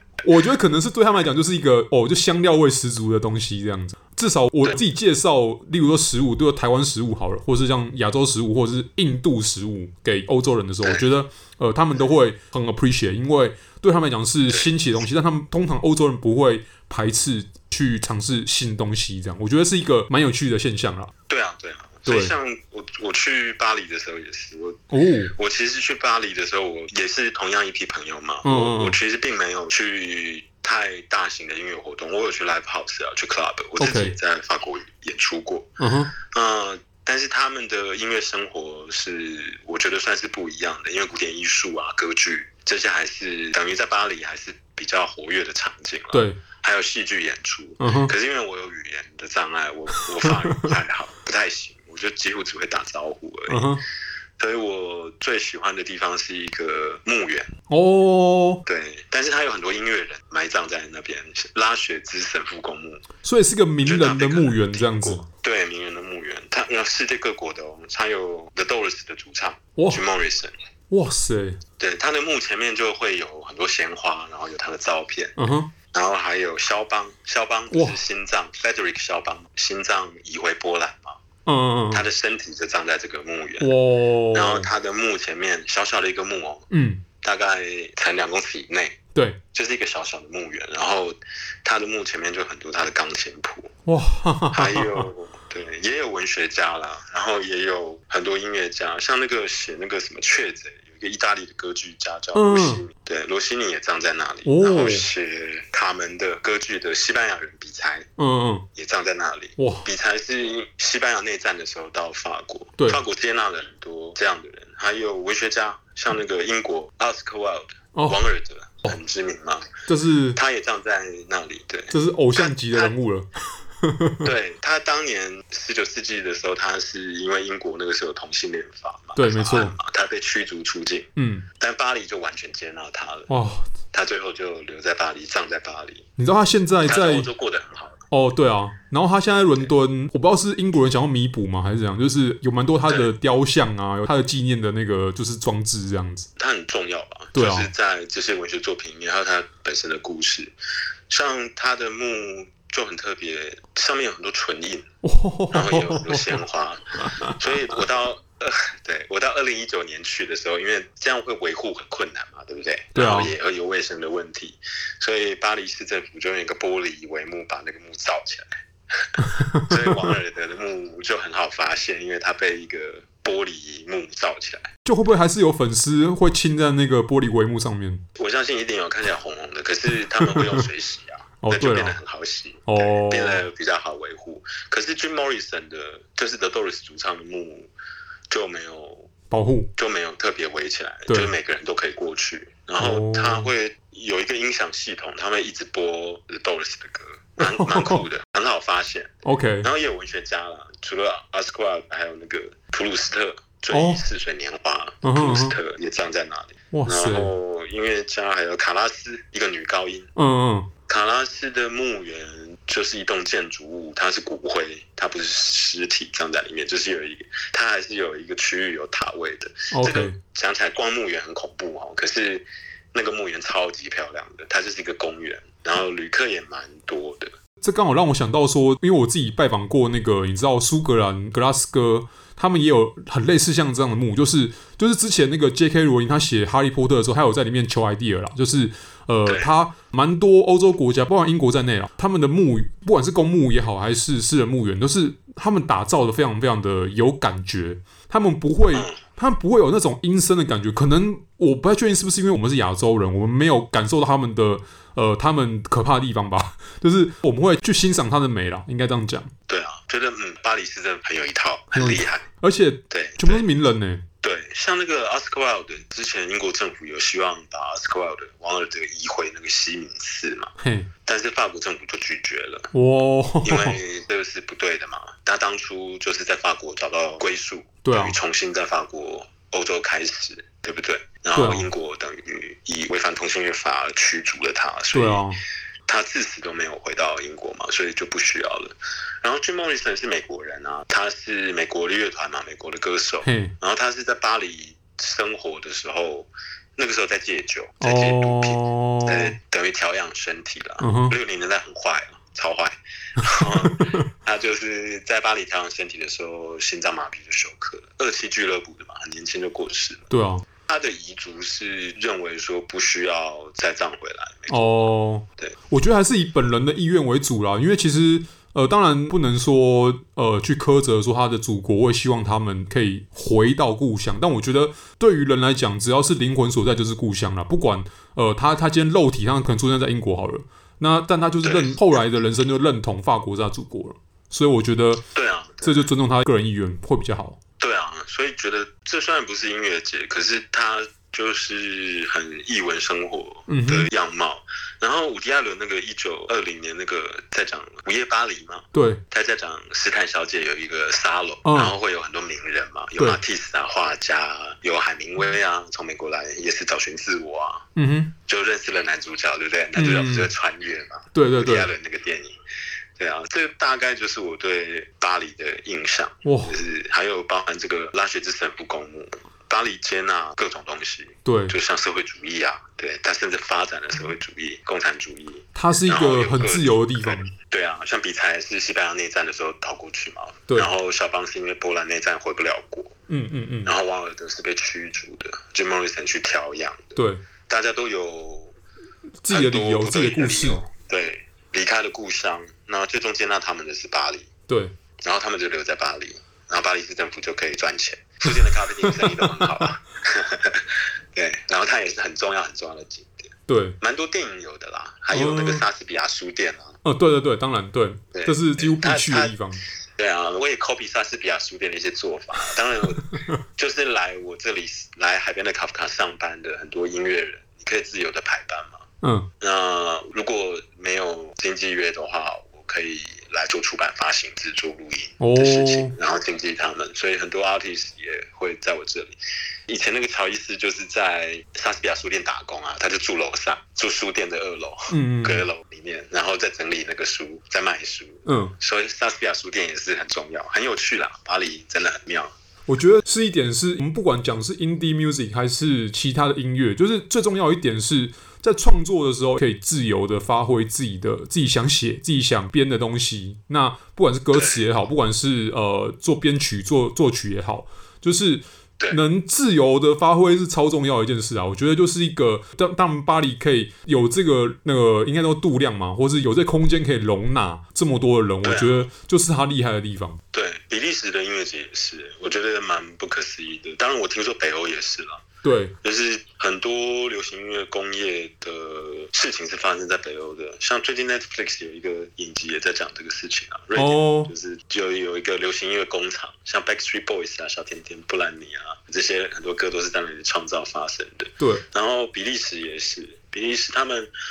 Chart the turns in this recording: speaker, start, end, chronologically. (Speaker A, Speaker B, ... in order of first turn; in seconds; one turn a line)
Speaker A: 0.2-21.1
Speaker B: 21.3-24.8
Speaker A: 22.1-22.3
Speaker A: 24.9-25.3
Speaker B: 25.3-53.7
Speaker A: 28.4-29.0
Speaker A: 33.8-34.1
Speaker A: 35.8-36.1
Speaker A: 46.1-46.4
Speaker A: 47.8-48.1
Speaker A: 53.5-53.8
Speaker B: 54.4-57.5
Speaker A: 57.7-58.6
Speaker B: 58.6-63.0
Speaker A: 63.2-65.2
Speaker B: 63.8-70.5
Speaker A: 69.8-70.0
Speaker A: 70.9-71.6
Speaker B: 71.8-75.3
Speaker A: 75.4-75.7
Speaker B: 75.9-81.2
Speaker A: 77.7-78.0
Speaker A: 81.5-82.0
Speaker B: 81.9-83.7
Speaker A: 83.6-84.7
Speaker B: 84.3-86.7
Speaker A: 86.7-87.0
Speaker B: 87.2-89.0
Speaker B: 89.5-93.7
Speaker A: 93.8-95.1
Speaker B: 94.5-108.1
Speaker A: 102.3-102.8
Speaker A: 104.4-105.1
Speaker A: 108.2-108.6
Speaker B: 108.7-119.7
Speaker A: 109.6-109.8
Speaker A: 117.9-118.2
Speaker A: 119.9-120.4
Speaker B: 120.3-122.9
Speaker A: 121.9-123.3
Speaker A: 123.8-124.3
Speaker B: 124.2-133.3
Speaker A: 129.2-129.7
Speaker A: 131.2-131.4
Speaker A: 133.3-133.7
Speaker B: 133.9-136.1
Speaker A: 136.2-137.3
Speaker B: 136.8-138.0
Speaker A: 138.1-146.3
Speaker B: 146.4-150.5
Speaker A: 147.3-147.7
Speaker B: 151.1-154.8
Speaker A: 155.0-156.4
Speaker B: 155.5-174.7
Speaker A: 157.0-157.3
Speaker A: 162.9-163.3
Speaker A: 169.2-170.1
Speaker A: 174.8-178.0
Speaker B: 178.2-187.7
Speaker A: 180.1-180.6
Speaker A: 181.4-181.9
Speaker A: 182.7-183.4
Speaker B: 188.3-189.1
Speaker A: 189.3-189.7
Speaker B: 189.8-210.1
Speaker A: 192.8-193.5
Speaker A: 197.4-198.0
Speaker A: 199.2-199.7
Speaker A: 203.7-204.0
Speaker A: 205.0-205.6
Speaker A: 206.7-207.3
Speaker A: 210.2-210.7
Speaker B: 210.9-227.3
Speaker A: 219.7-220.2
Speaker A: 227.6-259.3
Speaker B: 248.7-249.0
Speaker B: 259.5-262.2
Speaker A: 261.7-264.0
Speaker B: 262.9-263.4
Speaker B: 264.2-270.5
Speaker A: 270.6-270.9
Speaker B: 271.1-272.7
Speaker A: 272.7-273.8
Speaker B: 273.4-285.2
Speaker A: 277.8-278.1
Speaker A: 281.3-281.7
Speaker A: 284.9-285.4
Speaker B: 285.9-310.1
Speaker A: 293.2-293.5
Speaker A: 297.8-299.3
Speaker A: 300.8-301.1
Speaker A: 303.2-304.0
Speaker A: 310.1-310.4
Speaker B: 310.6-314.8
Speaker A: 314.5-335.0
Speaker B: 331.4-331.7
Speaker B: 335.1-335.9
Speaker A: 335.6-337.4
Speaker B: 337.6-357.7
Speaker A: 343.5-343.9
Speaker A: 348.7-349.0
Speaker A: 351.4-351.7
Speaker A: 357.8-358.1
Speaker B: 358.3-362.3
Speaker A: 359.8-360.3
Speaker A: 361.1-361.7
Speaker B: 363.0-382.9
Speaker A: 366.2-366.5
Speaker A: 371.2-371.5
Speaker A: 375.5-377.3
Speaker A: 383.1-383.7
Speaker B: 383.6-388.5
Speaker A: 386.9-387.2
Speaker A: 389.2-390.6
Speaker B: 389.3-394.3
Speaker A: 394.5-394.7
Speaker B: 395.0-406.8
Speaker A: 398.3-399.6
Speaker A: 403.5-403.8
Speaker A: 405.1-405.6
Speaker A: 406.8-409.6
Speaker B: 408.1-409.3
Speaker B: 410.0-418.8
Speaker A: 413.1-413.4
Speaker B: 419.4-429.1
Speaker A: 425.2-425.9
Speaker B: 429.7-442.3
Speaker A: 434.9-435.4
Speaker A: 438.2-438.5
Speaker A: 442.7-470.2
Speaker B: 454.3-454.6
Speaker B: 468.4-468.9
Speaker B: 470.3-475.2
Speaker A: 475.4-475.7
Speaker B: 475.8-494.1
Speaker A: 483.8-484.3